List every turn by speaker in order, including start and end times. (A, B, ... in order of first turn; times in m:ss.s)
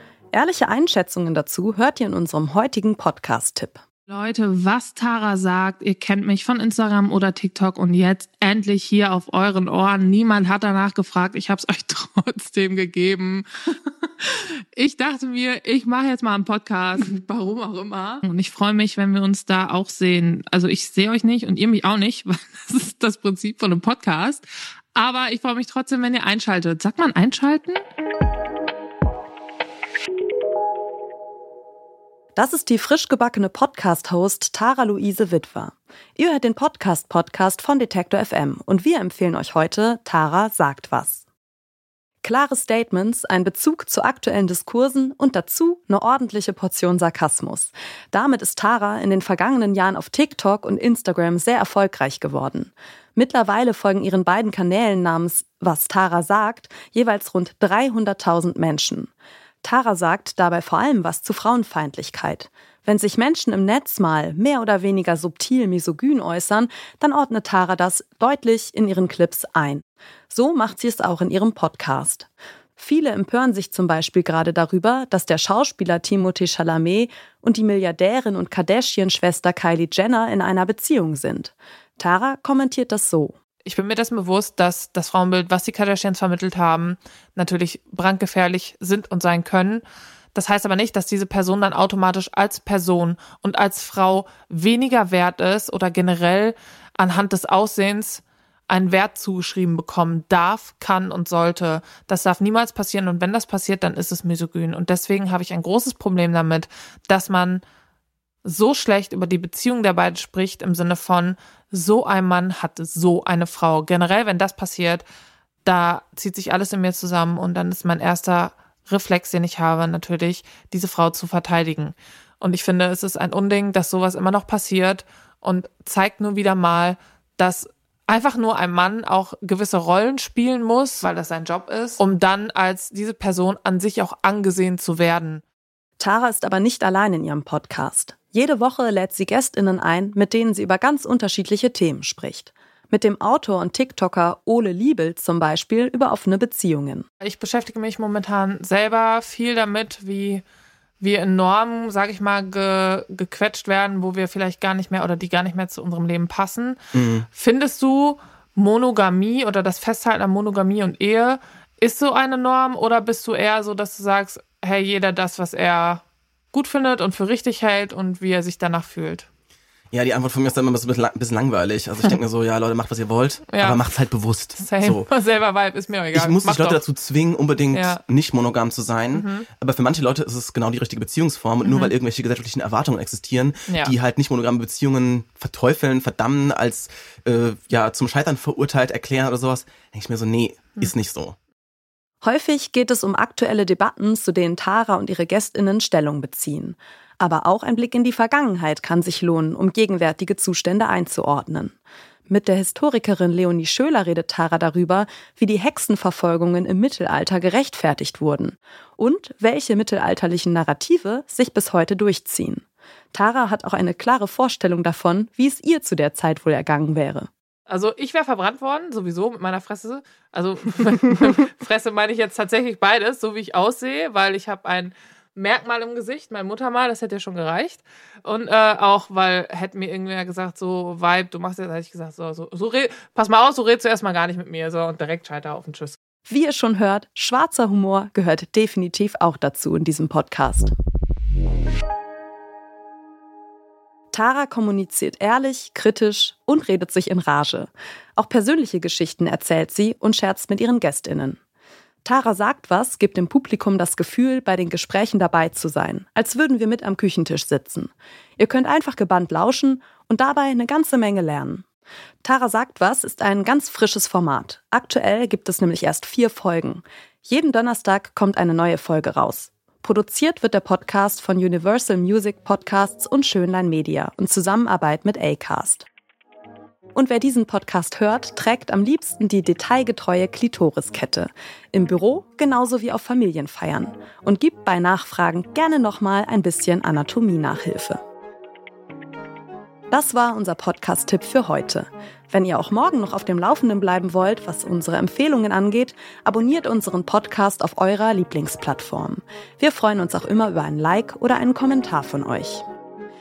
0:00.3-0:03.8 A
0:04.1-0:27.8 B
0:32.3-0:41.2 A
0:42.2-0:59.1 A
0:59.6-1:23.4 A
1:23.6-1:47.6 B
1:48.4-1:55.0 B
1:55.6-2:15.4 B
2:16.0-2:27.0 A
2:27.2-2:30.4 B
2:31.0-2:36.8 B
2:36.9-2:37.2 C
2:37.3-2:49.3 B
2:49.9-2:55.1 C
2:53.5-2:53.8 B
2:54.6-2:56.8 B
2:56.1-3:11.4 C
2:57.7-2:58.0 B
2:59.1-2:59.5 B
3:01.6-3:01.9 B
3:03.7-3:03.9 B
3:12.2-3:21.7 A
3:22.3-3:37.3 A
3:37.7-3:56.0 B
3:56.3-4:00.7 A
4:04.1-4:11.4 A
4:12.0-4:21.6 A
4:22.2-4:35.9 A
4:36.9-4:48.0 A
4:49.9-5:02.6 A